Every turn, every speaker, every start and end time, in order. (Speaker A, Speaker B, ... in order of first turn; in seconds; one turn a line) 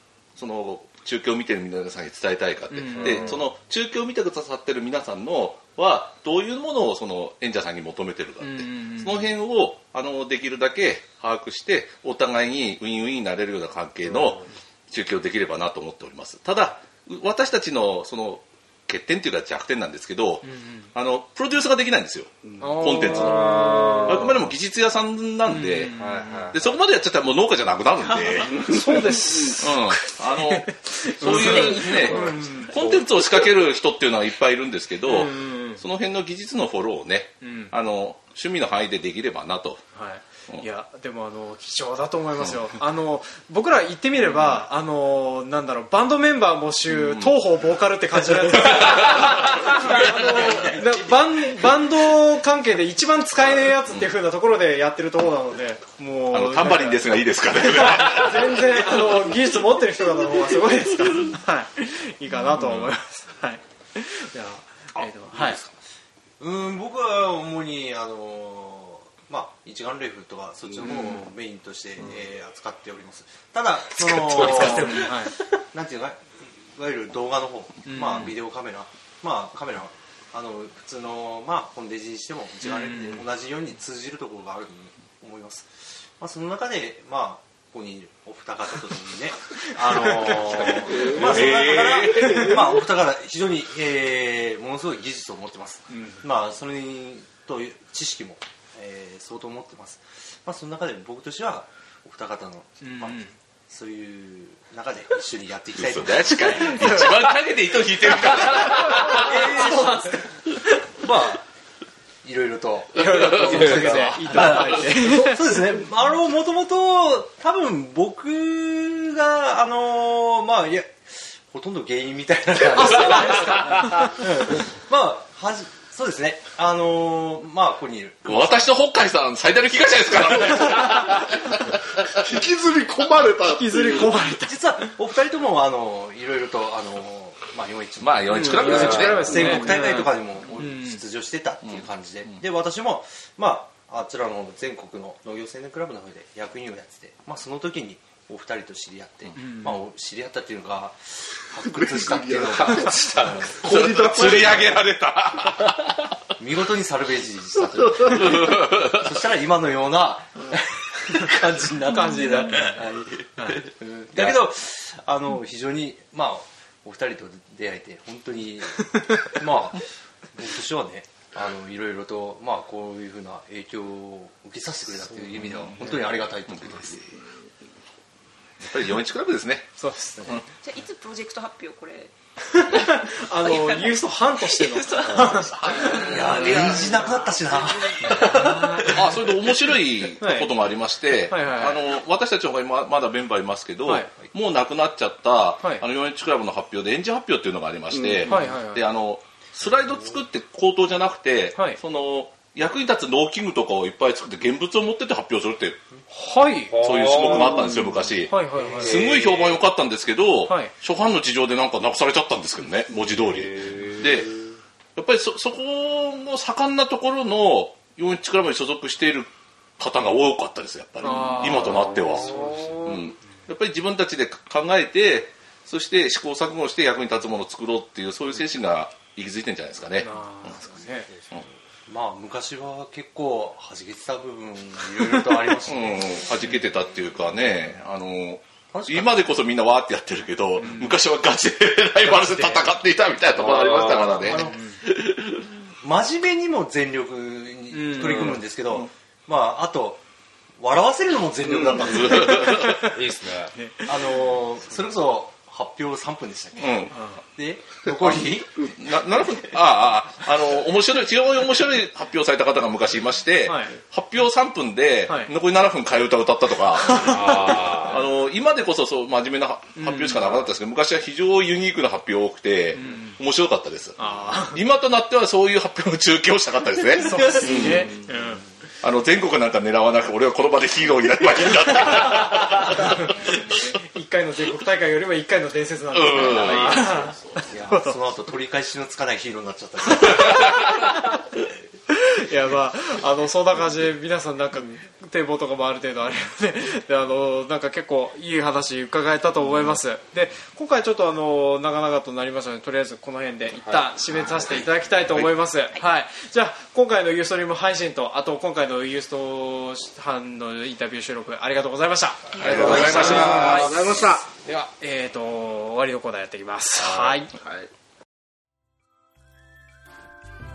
Speaker A: 0.3-26.0
Speaker B: 2.7-3.4
Speaker C: 3.0-3.4
Speaker B: 8.4-9.3
Speaker B: 20.4-20.9
Speaker D: 22.4-22.7
Speaker B: 22.6-24.3
Speaker C: 23.1-24.3
Speaker B: 25.4-26.5
Speaker C: 25.9-26.7
Speaker A: 26.5-39.8
Speaker D: 28.5-29.6
Speaker B: 28.6-32.9
Speaker E: 31.4-32.2
Speaker C: 31.8-33.0
Speaker B: 35.0-35.8
Speaker B: 37.4-37.7
Speaker B: 39.9-65.6
Speaker A: 44.2-44.6
Speaker A: 46.9-47.4
Speaker A: 48.3-50.8
Speaker A: 56.3-59.1
Speaker A: 62.5-62.9
Speaker A: 65.3-65.6
Speaker F: 66.4-107.0
Speaker B: 70.8-71.3
Speaker C: 74.2-75.2
Speaker B: 74.3-75.4
Speaker B: 77.8-78.3
Speaker B: 82.6-83.2
Speaker B: 90.0-90.4
Speaker A: 90.6-92.8
Speaker B: 92.2-92.5
Speaker B: 95.9-96.2
Speaker B: 102.8-103.3
Speaker A: 105.8-109.3
Speaker B: 106.5-107.1
Speaker B: 108.8-110.6
Speaker F: 109.0-110.3
Speaker F: 111.0-111.5
Speaker F: 112.2-128.6
Speaker B: 112.9-115.5
Speaker B: 122.8-123.8
Speaker A: 128.2-132.2
Speaker D: 132.1-134.2
Speaker B: 133.4-134.6
Speaker F: 134.3-153.7
Speaker A: 138.0-139.8
Speaker B: 138.3-141.0
Speaker C: 138.6-139.3
Speaker A: 141.6-142.4
Speaker B: 149.3-149.8
Speaker D: 151.6-154.8
Speaker A: 153.6-156.1
Speaker F: 156.4-177.1
Speaker A: 158.1-159.1
Speaker D: 158.1-158.3
Speaker B: 161.1-162.8
Speaker A: 175.2-177.0
Speaker A: 178.6-179.7
Speaker B: 179.8-180.4
Speaker E: 180.6-187.3
Speaker B: 182.5-186.9
Speaker A: 185.1-186.8
Speaker F: 186.0-189.0
Speaker B: 188.2-189.0
Speaker A: 188.7-205.8
Speaker B: 190.2-190.5
Speaker B: 191.3-191.8
Speaker B: 193.8-194.1
Speaker B: 198.2-198.9
Speaker B: 201.5-201.8
Speaker B: 206.1-207.5
Speaker C: 206.7-207.8
Speaker A: 206.8-214.3
Speaker B: 208.3-209.0
Speaker C: 208.8-209.6
Speaker B: 210.5-210.7
Speaker C: 213.3-214.1
Speaker A: 214.9-230.6
Speaker B: 221.0-223.1
Speaker C: 221.5-222.3
Speaker B: 229.9-231.1
Speaker F: 231.9-236.2
Speaker A: 235.7-245.5
Speaker F: 238.7-239.3
Speaker B: 240.6-241.0
Speaker B: 242.1-242.7
Speaker C: 243.4-244.3
Speaker F: 243.4-244.7
Speaker B: 244.3-244.8
Speaker F: 245.8-250.0
Speaker B: 247.7-248.4
Speaker F: 250.6-252.5
Speaker D: 251.5-251.8
Speaker A: 251.7-252.9
Speaker B: 252.2-252.9
Speaker C: 252.5-253.5
Speaker B: 253.5-254.4
Speaker F: 253.8-258.7
Speaker A: 256.6-256.9
Speaker B: 256.9-257.2
Speaker D: 258.4-258.7
Speaker A: 258.7-273.9
Speaker B: 263.4-263.8
Speaker B: 265.1-265.3
Speaker B: 266.8-267.6
Speaker C: 266.9-268.0
Speaker B: 269.8-270.3
Speaker B: 272.7-273.2
Speaker B: 274.0-274.6
Speaker A: 274.5-278.0
Speaker B: 277.0-278.4
Speaker F: 277.2-277.9
Speaker A: 278.8-283.6
Speaker B: 281.7-288.0
Speaker A: 285.9-287.4
Speaker C: 286.3-287.0
Speaker F: 286.5-286.9
Speaker F: 287.4-290.9
Speaker A: 290.2-290.8
Speaker B: 291.9-317.3
Speaker C: 303.6-303.9
Speaker A: 304.2-305.3
Speaker A: 312.4-313.7
Speaker D: 312.4-314.2
Speaker C: 312.7-313.4
Speaker F: 312.8-313.5
Speaker D: 317.3-317.7